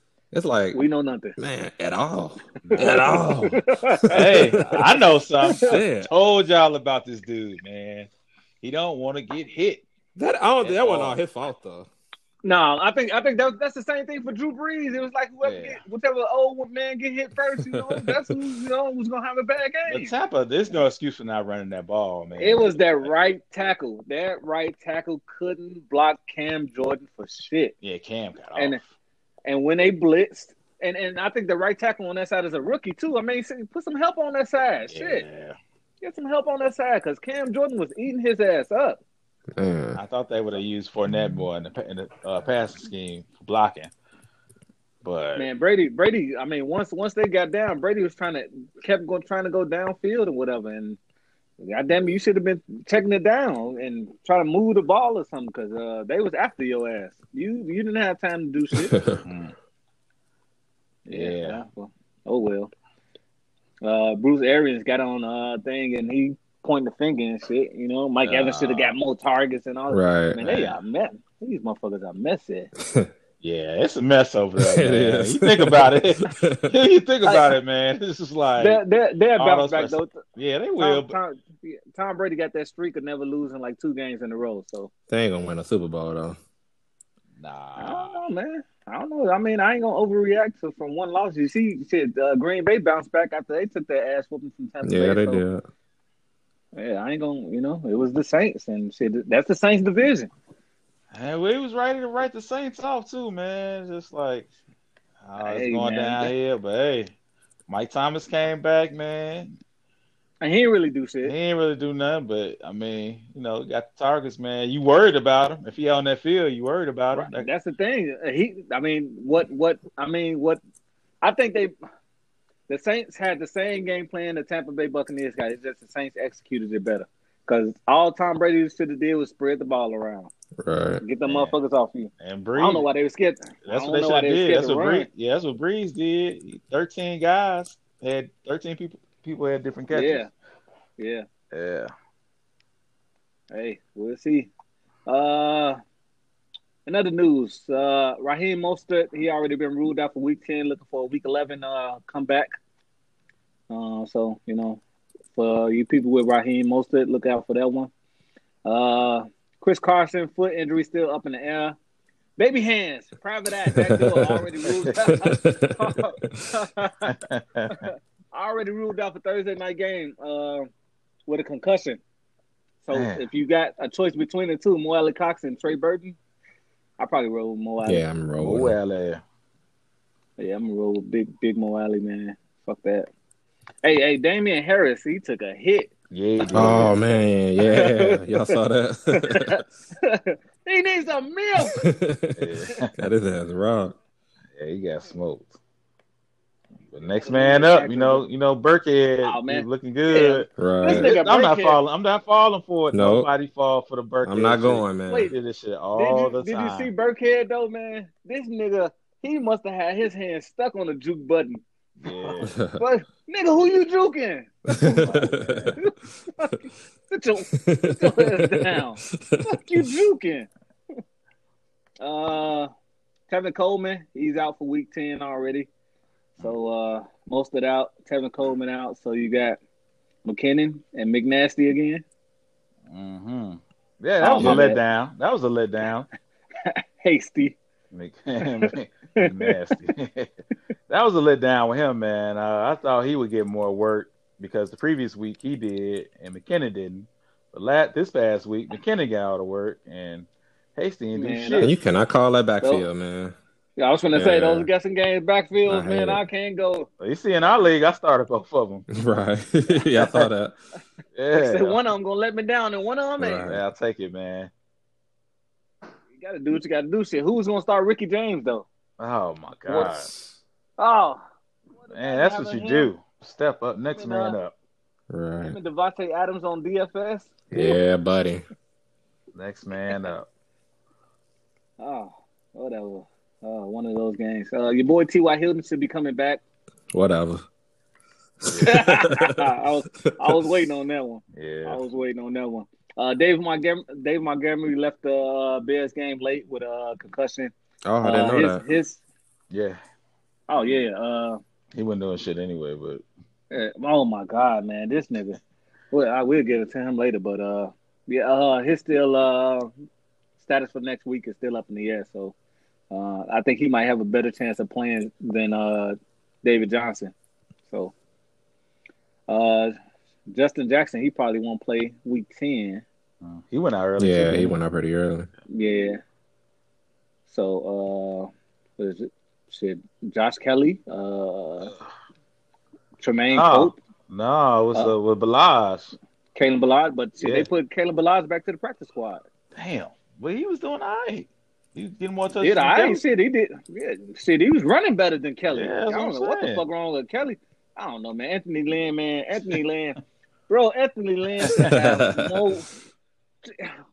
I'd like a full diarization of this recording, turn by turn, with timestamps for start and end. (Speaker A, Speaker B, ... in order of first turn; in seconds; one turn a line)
Speaker A: 0.3-0.8
Speaker B: 0.7-1.4
Speaker A: 1.4-4.5
Speaker C: 2.6-3.3
Speaker B: 2.7-5.8
Speaker C: 4.1-8.1
Speaker A: 5.6-6.1
Speaker C: 8.6-9.8
Speaker A: 10.2-11.9
Speaker C: 10.6-11.2
Speaker B: 12.4-20.1
Speaker C: 15.4-15.8
Speaker A: 17.7-18.3
Speaker C: 19.9-23.1
Speaker B: 22.4-27.8
Speaker C: 27.8-28.8
Speaker B: 29.4-35.2
Speaker C: 34.9-35.6
Speaker B: 36.0-39.0
Speaker A: 39.6-40.0
Speaker C: 40.0-43.9
Speaker C: 45.0-45.5
Speaker B: 45.4-51.0
Speaker B: 51.6-59.0
Speaker A: 58.9-59.2
Speaker C: 59.2-59.5
Speaker B: 61.1-62.7
Speaker C: 61.1-61.6
Speaker B: 63.8-72.7
Speaker C: 68.2-69.0
Speaker A: 69.9-70.5
Speaker C: 70.5-70.7
Speaker A: 72.8-73.1
Speaker C: 73.4-78.8
Speaker A: 74.6-76.7
Speaker B: 77.2-77.6
Speaker B: 78.6-80.2
Speaker C: 79.4-81.2
Speaker B: 80.8-84.9
Speaker A: 85.1-86.4
Speaker C: 87.4-88.2
Speaker B: 87.8-95.4
Speaker A: 94.8-95.6
Speaker B: 96.7-100.3
Speaker C: 101.1-104.5
Speaker C: 105.2-107.1
Speaker B: 105.4-106.3
Speaker C: 107.7-109.6
Speaker B: 110.4-111.3
Speaker C: 111.2-117.5
Speaker B: 117.1-120.6
Speaker B: 121.2-121.7
Speaker B: 122.7-130.3
Speaker A: 130.6-131.0
Speaker B: 131.0-135.1
Speaker C: 131.2-131.6
Speaker C: 132.2-132.9
Speaker C: 133.7-140.3
Speaker B: 139.9-140.3
Speaker B: 141.0-141.3
Speaker C: 141.5-141.9
Speaker B: 143.5-144.5
Speaker B: 145.1-145.8
Speaker B: 146.9-152.5
Speaker B: 153.7-154.8
Speaker B: 155.3-157.9
Speaker B: 158.7-161.8
Speaker B: 162.4-167.2
Speaker A: 163.7-164.4
Speaker A: 165.0-166.5
Speaker C: 167.1-167.9
Speaker B: 167.7-170.7
Speaker B: 171.3-172.0
Speaker B: 172.8-176.2
Speaker C: 172.9-173.3
Speaker B: 177.0-178.0
Speaker A: 177.8-178.8
Speaker C: 178.4-179.2
Speaker B: 180.4-183.1
Speaker B: 183.8-185.9
Speaker C: 186.1-186.9
Speaker A: 186.5-189.6
Speaker B: 187.6-188.6
Speaker B: 189.1-191.8
Speaker A: 191.7-193.9
Speaker C: 192.4-192.9
Speaker C: 194.6-195.5
Speaker C: 196.9-206.9
Speaker B: 197.2-198.2
Speaker B: 199.2-201.8
Speaker A: 200.6-201.2
Speaker A: 202.9-203.3
Speaker A: 204.2-205.3
Speaker B: 205.1-205.3
Speaker B: 205.9-215.2
Speaker C: 212.0-212.6
Speaker A: 212.5-212.8
Speaker A: 214.7-215.8
Speaker C: 214.9-215.8
Speaker B: 215.8-220.5
Speaker A: 217.5-219.4
Speaker B: 222.0-222.7
Speaker B: 223.3-225.7
Speaker B: 226.4-229.6
Speaker B: 230.2-232.0
Speaker C: 232.9-236.1
Speaker B: 234.2-234.8
Speaker A: 234.4-234.6
Speaker B: 236.6-237.6
Speaker C: 237.9-240.3
Speaker B: 238.6-239.8
Speaker C: 240.9-251.8
Speaker B: 251.2-251.7
Speaker A: 251.6-253.3
Speaker B: 253.8-256.9
Speaker A: 254.1-254.7
Speaker A: 255.7-256.2
Speaker C: 257.0-258.9
Speaker A: 258.9-260.6
Speaker C: 261.1-261.8
Speaker B: 261.3-263.5
Speaker A: 263.2-263.6
Speaker C: 263.5-264.5
Speaker B: 266.2-268.7
Speaker C: 269.0-270.1
Speaker B: 269.7-270.1
Speaker B: 270.8-271.2
Speaker B: 271.8-272.9
Speaker C: 271.9-274.6
Speaker B: 273.9-274.4
Speaker A: 275.1-275.6
Speaker B: 275.5-277.6
Speaker A: 277.5-278.4
Speaker C: 279.4-280.3
Speaker B: 281.8-286.4
Speaker A: 286.9-287.5
Speaker A: 288.4-289.4
Speaker C: 288.5-288.9
Speaker B: 288.6-299.0
Speaker A: 290.2-290.6
Speaker C: 291.3-291.8
Speaker A: 297.9-298.6
Speaker C: 299.5-299.8
Speaker B: 300.5-301.4
Speaker C: 301.7-303.0
Speaker B: 303.5-305.4
Speaker B: 305.9-309.7
Speaker B: 310.4-312.3
Speaker B: 312.9-317.1
Speaker B: 319.3-319.8
Speaker B: 320.3-322.8
Speaker C: 323.2-324.6
Speaker A: 324.0-325.3
Speaker B: 325.5-326.0
Speaker B: 327.3-331.7
Speaker B: 333.0-333.8
Speaker C: 333.3-335.9
Speaker B: 336.4-339.2
Speaker C: 337.2-337.5
Speaker C: 339.6-343.0
Speaker B: 342.4-350.0
Speaker C: 345.5-346.6
Speaker B: 350.5-352.7
Speaker C: 351.4-351.7
Speaker A: 351.5-352.6
Speaker B: 353.4-353.8